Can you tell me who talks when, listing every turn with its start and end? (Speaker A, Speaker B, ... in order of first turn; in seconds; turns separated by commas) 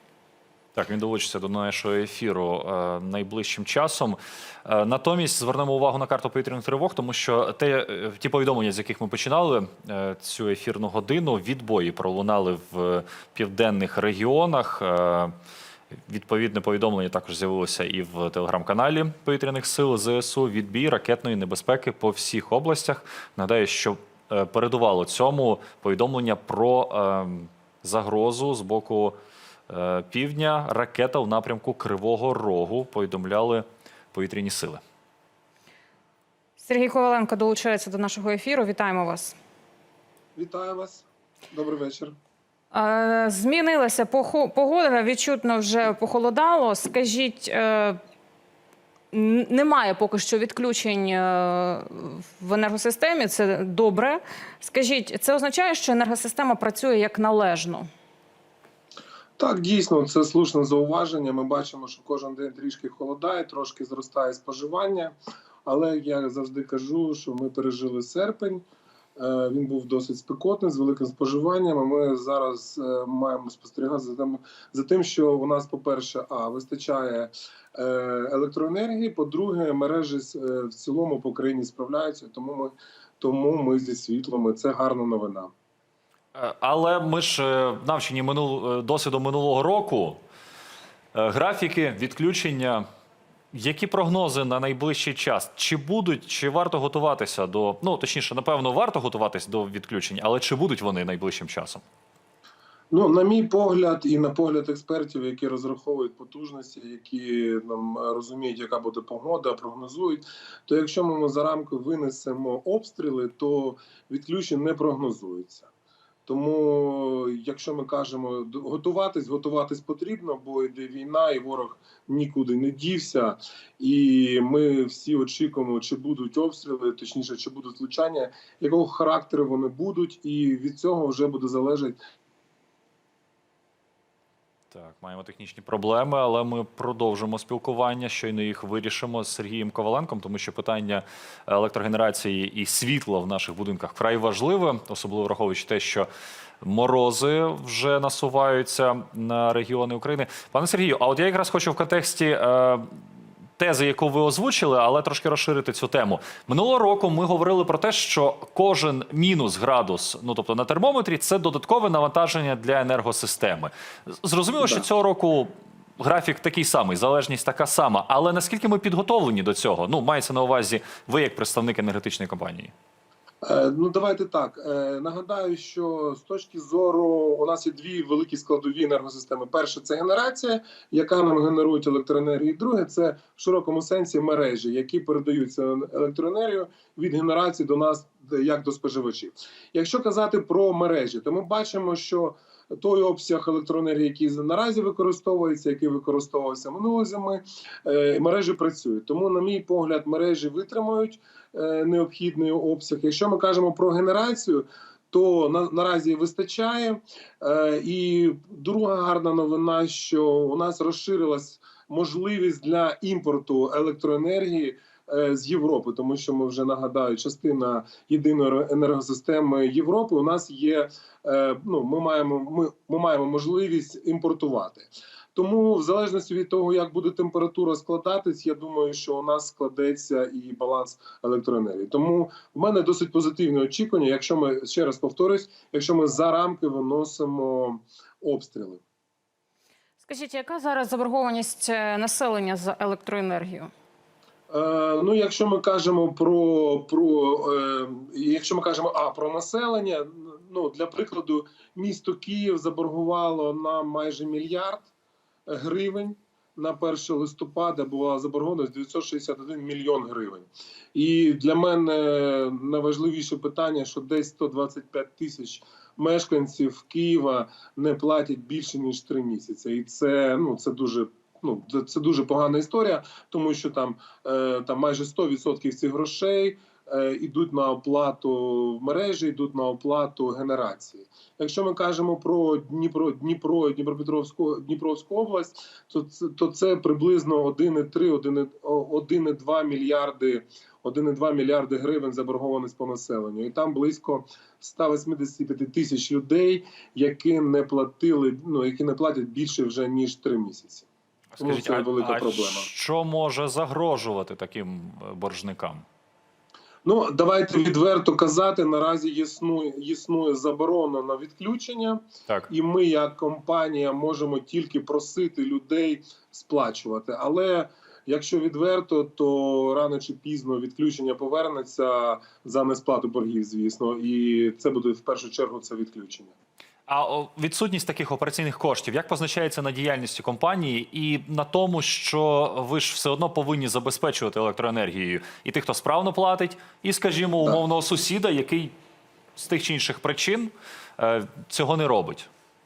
Speaker A: 0.8-15.3, Speaker A: 16.1-29.2, Speaker A: 29.7-34.8, Speaker B: 36.6-39.4, Speaker C: 40.4-42.1, Speaker B: 42.7-48.0, Speaker B: 49.1-57.9, Speaker C: 59.4-65.1, Speaker C: 65.7-68.6, Speaker C: 69.2-85.5, Speaker A: 86.3-90.2, Speaker A: 91.1-92.8, Speaker A: 93.5-101.8, Speaker C: 102.9-115.7, Speaker C: 116.3-132.0, Speaker A: 134.7-146.1, Speaker A: 146.6-152.9, Speaker A: 153.6-172.7, Speaker C: 164.6-164.8, Speaker C: 173.4-238.8, Speaker B: 240.0-243.7, Speaker C: 244.5-254.9, Speaker C: 255.5-300.9, Speaker A: 301.3-305.9, Speaker C: 301.4-302.7, Speaker C: 306.9-326.3, Speaker A: 326.9-338.7, Speaker A: 339.4-342.3